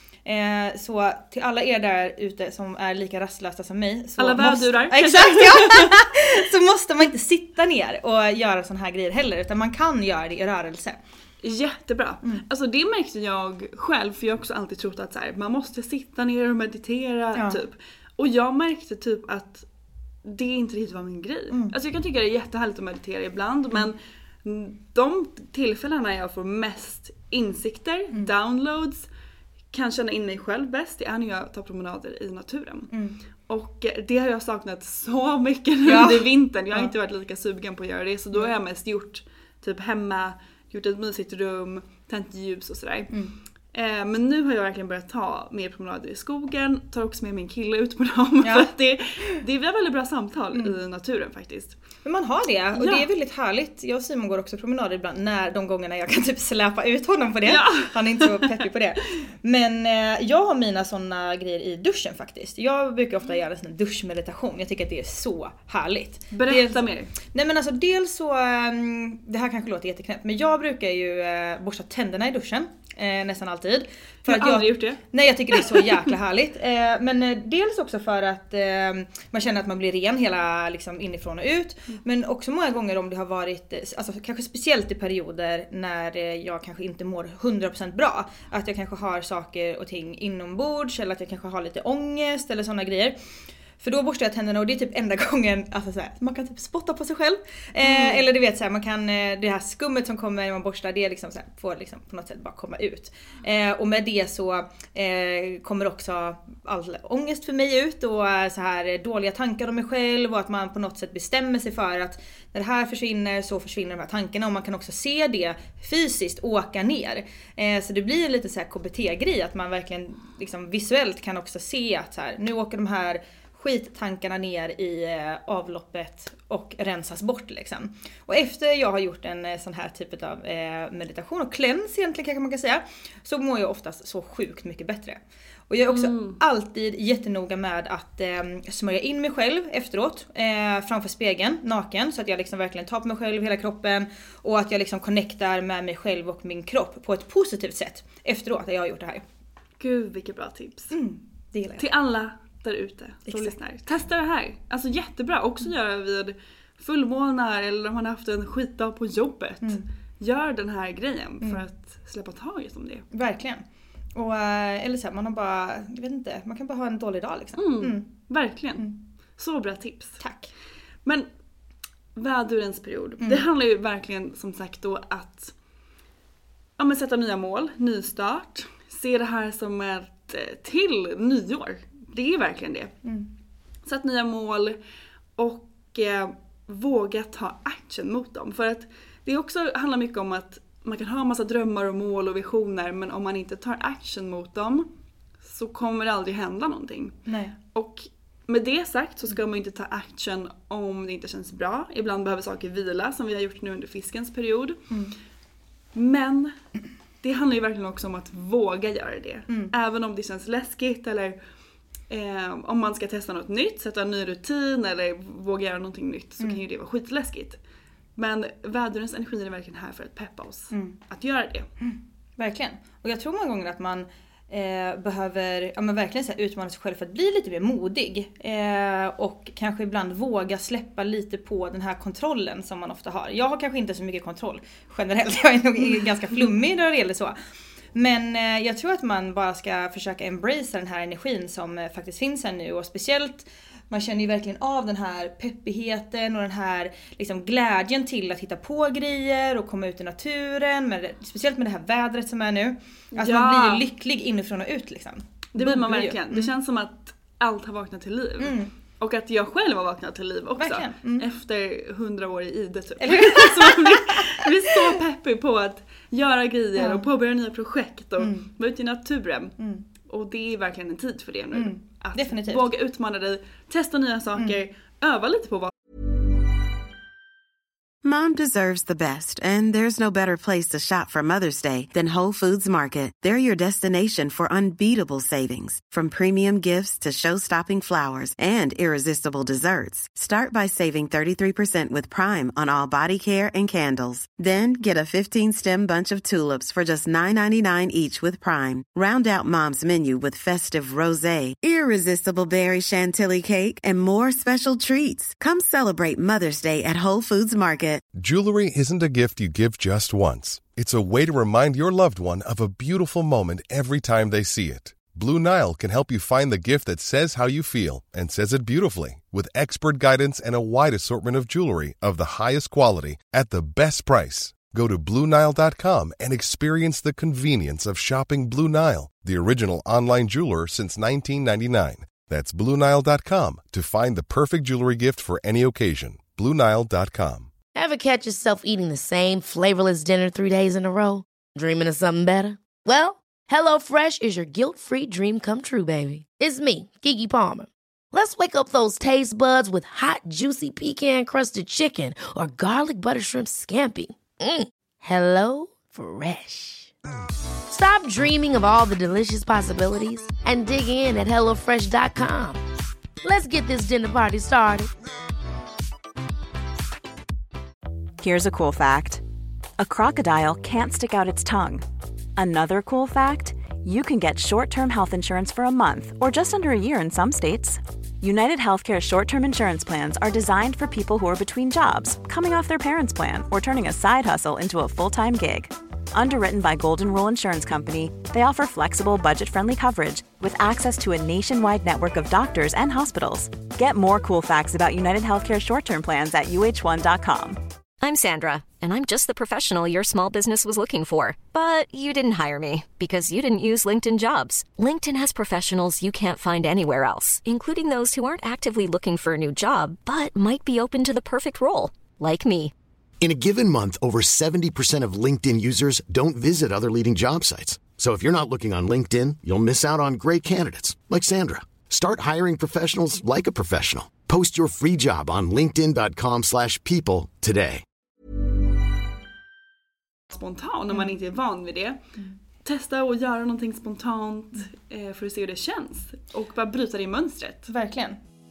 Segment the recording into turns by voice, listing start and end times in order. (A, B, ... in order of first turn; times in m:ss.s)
0:00.2-0:11.0 A
0:04.2-0:06.0 B
0:11.4-0:19.7 B
0:20.2-0:29.1 B
0:21.5-0:21.8 A
0:29.7-0:32.9 B
0:32.9-0:33.2 A
0:33.5-0:43.1 B
0:35.8-0:36.9 A
0:43.7-0:51.8 B
0:48.4-0:48.7 A
0:52.0-1:33.2 A
0:52.8-0:53.0 B
0:57.5-0:58.5 B
1:06.3-1:07.1 B
1:14.3-1:15.0 B
1:15.5-1:15.9 B
1:33.8-2:29.2 A
1:37.8-1:38.2 B
2:15.9-2:16.4 B
2:29.8-2:31.0 B
2:30.9-2:31.8 A
2:31.8-2:43.1 B
2:33.3-2:33.6 A
2:43.1-2:48.1 A
2:47.6-2:50.2 B
2:50.2-2:50.5 A
2:52.2-2:55.5 B
2:56.8-3:03.0 B
3:03.8-3:04.8 B
3:05.4-3:14.9 B
3:15.4-3:24.8 B
3:17.3-3:17.5 A
3:25.9-3:26.6 B
3:27.2-3:31.4 B
3:32.1-3:37.6 B
3:38.2-3:41.7 B
3:40.7-3:41.0 A
3:41.8-3:57.4 A
3:57.9-4:16.5 A
4:13.1-4:13.8 B
4:15.5-4:35.7 B
4:18.4-4:18.7 A
4:20.6-4:21.3 A
4:23.0-4:24.5 A
4:26.8-4:27.1 A
4:28.2-4:28.4 A
4:29.6-4:29.8 A
4:31.5-4:32.6 A
4:38.0-5:08.1 C
5:08.2-5:37.5 D
5:37.8-5:56.9 E
5:57.7-6:02.6 E
6:03.2-6:04.9 E
6:08.2-6:09.2 F
6:09.8-6:11.8 F
6:12.4-6:37.6 F
6:38.0-6:52.7 G
6:53.2-7:07.8 H
7:10.3-7:12.0 B
7:12.6-7:17.7 B
7:17.7-7:18.2 A